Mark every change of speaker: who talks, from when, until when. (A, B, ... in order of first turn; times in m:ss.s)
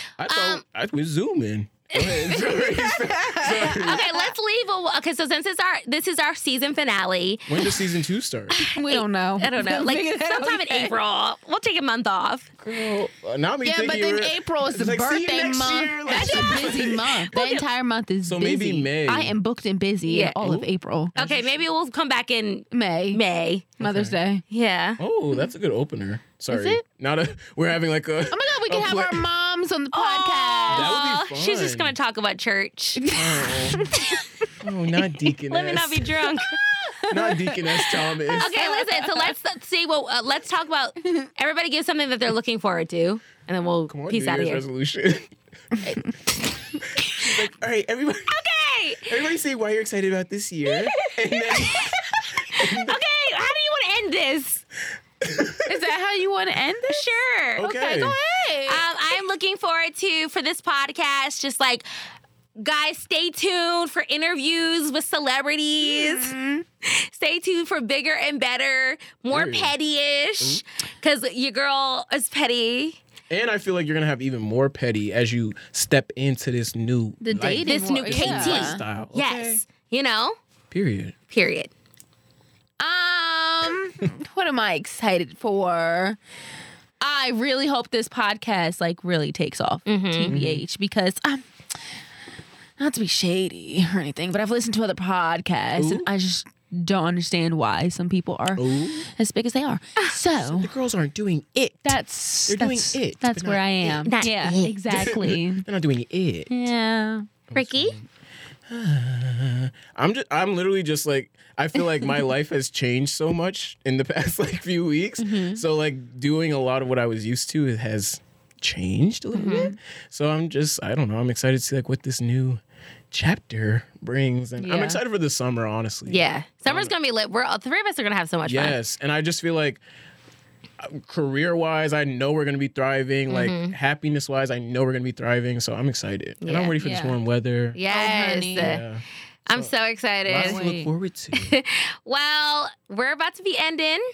0:00.2-0:04.1 A
0:00.3-0:00.6 B
0:01.9-0:02.6 B
0:03.1-0:04.1 C
0:03.8-0:07.6 B
0:07.5-0:08.6 A
0:08.5-0:11.0 C
0:08.6-0:12.5 B
0:12.6-0:17.2 A
0:13.6-0:21.2 C
0:16.1-0:16.8 B
0:17.3-0:17.6 B
0:18.2-0:19.4 A
0:20.0-0:20.4 B
0:20.4-0:21.6 A
0:21.2-0:23.8 B
0:22.7-0:23.2 C
0:23.8-0:24.2 A
0:23.8-0:24.4 C
0:24.5-0:25.0 B
0:25.0-0:29.2 A
0:26.5-0:26.8 C
0:28.3-0:30.9 C
0:29.9-0:33.0 B
0:30.7-0:32.0 A
0:33.0-0:34.2 C
0:33.1-0:33.9 A
0:34.6-0:36.4 A
0:35.4-0:36.6 B
0:36.5-0:39.3 C
0:37.1-0:38.5 A
0:38.4-0:44.6 B
0:43.9-0:45.3 A
0:45.8-0:46.1 C
0:47.0-0:48.4 A
0:48.3-0:49.2 B
0:49.0-0:53.0 A
0:50.6-0:52.0 B
0:52.5-0:54.6 B
0:55.2-0:55.8 A
0:55.6-0:57.0 C
0:56.9-0:57.7 B
0:57.6-0:58.2 A
0:57.6-0:58.8 C
0:58.7-1:01.8 B
1:02.6-1:13.0 B
1:05.8-1:06.6 C
1:09.3-1:09.7 A
1:13.3-1:19.6 A
1:17.2-1:18.8 C
1:17.6-1:20.4 B
1:20.7-1:21.1 A
1:21.3-1:21.7 B
1:22.8-1:26.2 C
1:27.0-1:31.4 C
1:29.9-1:30.3 B
1:30.3-1:30.6 A
1:32.8-1:40.7 C
1:35.7-1:36.1 A
1:38.6-1:39.0 A
1:40.4-1:43.6 A
1:41.8-1:45.7 C
1:43.8-1:44.8 B
1:44.9-1:46.5 A
1:46.5-1:47.3 C
1:47.5-1:48.0 A
1:47.5-1:48.0 B
1:48.7-2:06.9 A
1:55.2-1:55.6 C
1:59.4-1:59.7 B
1:59.4-1:59.8 C
2:04.6-2:05.0 C
2:06.1-2:08.8 B
2:08.5-2:09.8 A
2:10.8-2:17.8 A
2:13.3-2:13.7 B
2:16.4-2:16.7 B
2:16.8-2:17.2 C
2:17.7-2:18.8 B
2:17.9-2:18.8 C
2:18.6-2:19.7 A
2:19.5-2:20.6 B
2:20.2-2:21.6 A
2:20.4-2:20.9 C
2:21.3-2:24.0 B